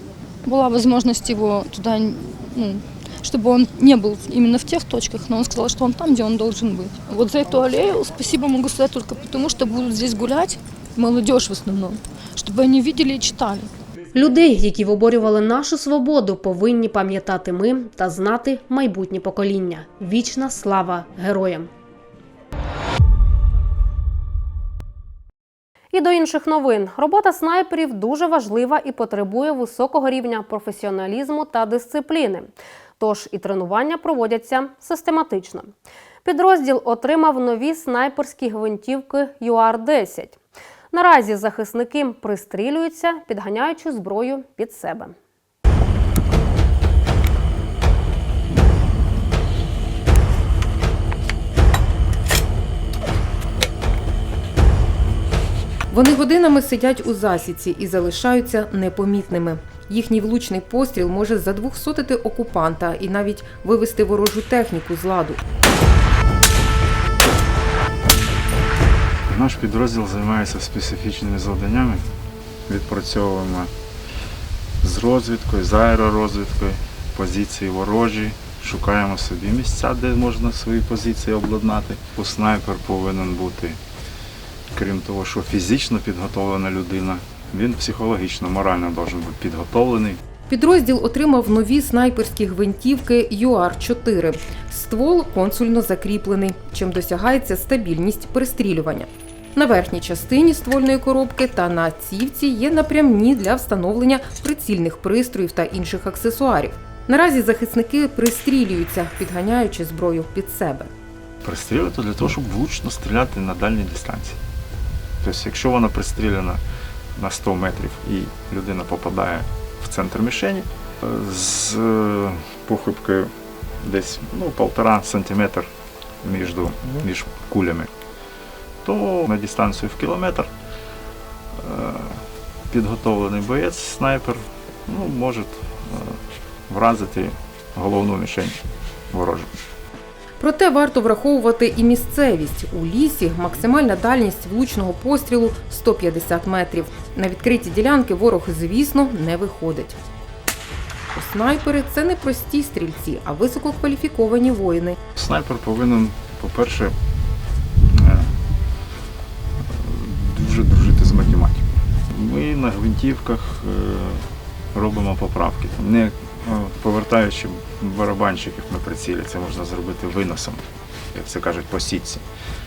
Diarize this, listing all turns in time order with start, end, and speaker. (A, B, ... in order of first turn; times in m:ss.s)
0:00.4-0:13.7 A
0:14.1-0:21.7 B
0:25.9-0:35.7 B
0:36.2-0:40.4 B
0:40.9-0:45.1 B
0:55.9-1:05.4 C
1:09.3-1:12.0 D
1:12.7-1:13.7 D
1:14.8-1:23.8 D
1:24.7-1:30.2 D
1:30.5-1:50.9 C
1:51.4-1:54.4 D
1:55.2-1:56.6 D
1:57.1-2:03.3 D
2:03.8-2:05.7 D
2:06.2-2:07.9 D
2:08.8-2:10.5 D
2:11.6-2:18.6 D
2:19.1-2:19.5 D
2:20.4-2:30.0 C
2:31.1-2:34.9 C
2:35.2-2:36.9 D
2:37.9-2:38.3 D
2:39.7-2:50.6 D
2:51.1-2:52.2 D